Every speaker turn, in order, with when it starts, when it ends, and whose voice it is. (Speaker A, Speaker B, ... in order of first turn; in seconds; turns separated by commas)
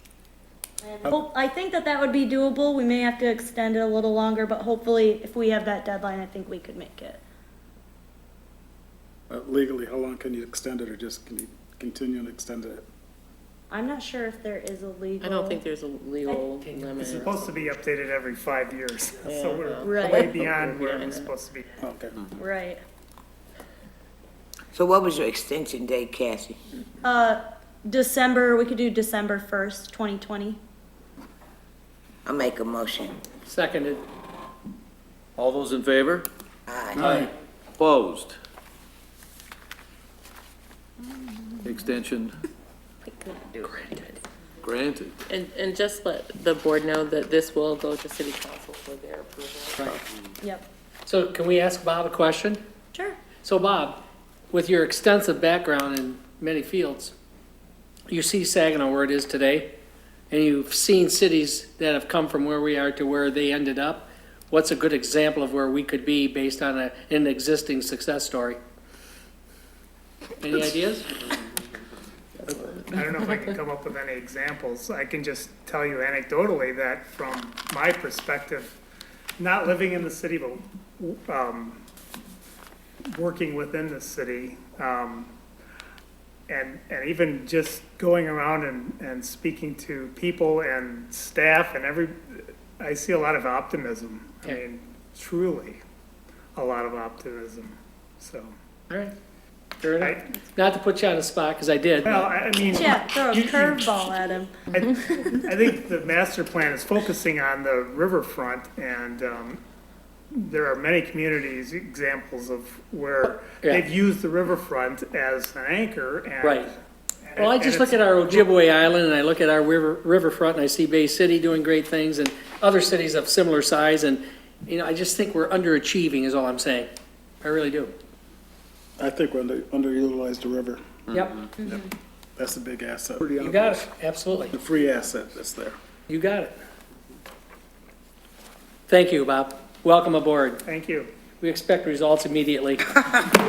Speaker A: 0.8-7.2, Speaker B: 9.3-12.8, Speaker A: 13.7-15.6, Speaker C: 15.2-17.5, Speaker D: 16.9-21.8, Speaker C: 19.2-21.3, Speaker A: 19.8-20.3, Speaker B: 21.8-22.3, Speaker A: 22.3-22.8, Speaker E: 24.7-26.6, Speaker A: 27.0-30.6, Speaker E: 32.2-33.2, Speaker F: 33.5-34.0, Speaker G: 35.4-36.3, Speaker E: 36.7-37.2, Speaker F: 37.0-37.3, Speaker G: 37.8-38.4, Speaker G: 41.6-42.3, Speaker A: 43.1-43.8, Speaker G: 44.6-45.1, Speaker C: 45.2-49.8, Speaker A: 50.4-50.7, Speaker F: 51.0-52.6, Speaker A: 52.9-53.2, Speaker F: 53.4-54.0, Speaker F: 54.5-57.1, Speaker F: 58.1-59.7, Speaker F: 60.3-68.6, Speaker F: 70.4-71.1, Speaker B: 72.4-73.0, Speaker D: 72.9-78.8, Speaker D: 79.4-81.8, Speaker D: 83.1-85.3, Speaker D: 86.5-95.8, Speaker D: 96.5-98.5, Speaker F: 99.8-102.2, Speaker D: 100.0-100.4, Speaker D: 102.0-104.1, Speaker A: 102.7-104.6, Speaker D: 104.7-109.6, Speaker D: 110.3-118.4, Speaker F: 113.2-113.8, Speaker F: 116.4-116.7, Speaker F: 117.3-126.9, Speaker F: 127.4-127.9, Speaker B: 129.0-130.8, Speaker F: 131.1-131.5, Speaker B: 131.6-133.8, Speaker F: 133.4-134.5, Speaker B: 134.5-135.8, Speaker F: 136.1-136.5, Speaker F: 138.9-140.6, Speaker D: 140.6-141.1, Speaker F: 141.4-143.0